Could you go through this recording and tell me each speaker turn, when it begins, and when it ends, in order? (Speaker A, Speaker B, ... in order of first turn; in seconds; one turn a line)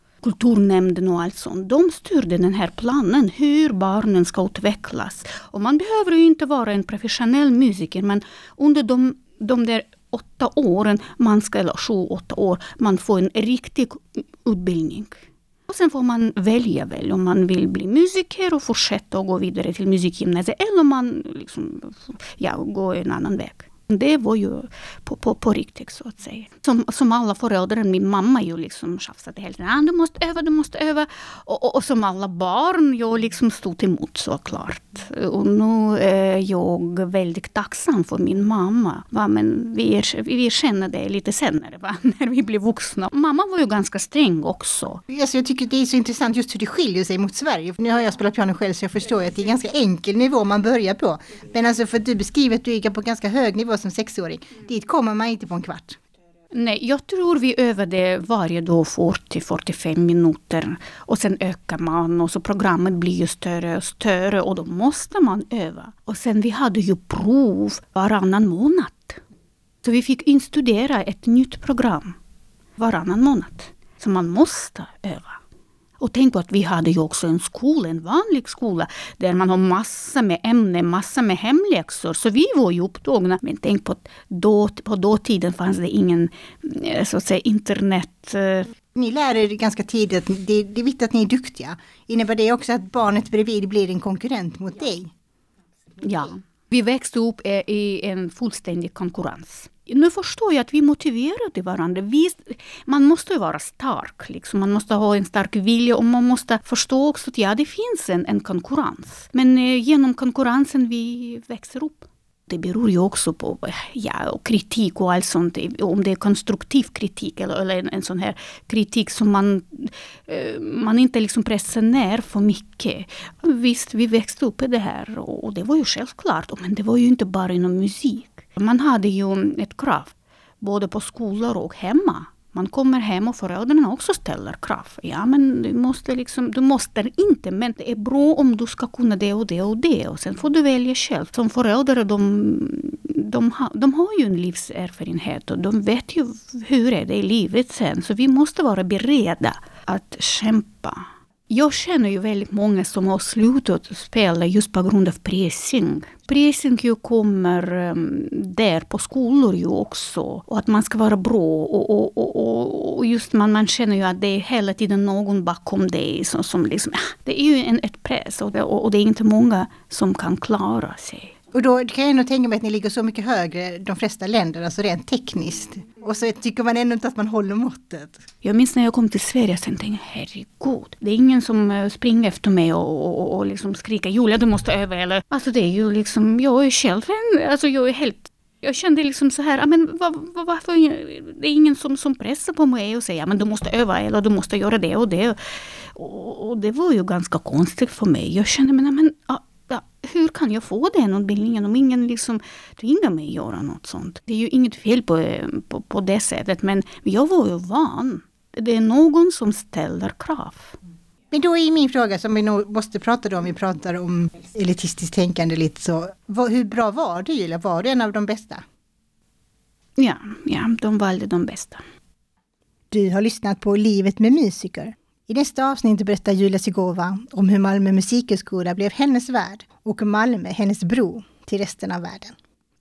Speaker A: 0.2-45.0
Speaker B: 45.1-56.0
Speaker A: 56.5-69.2
Speaker A: 69.8-72.2
Speaker A: 72.8-75.4
Speaker A: 76.0-88.7
Speaker B: 88.9-95.1
Speaker A: 96.0-171.3
Speaker B: 171.5-178.2
Speaker A: 178.4-195.4
Speaker A: 195.9-210.8
Speaker B: 211.3-218.6
Speaker A: 220.0-221.8
Speaker B: 222.9-232.3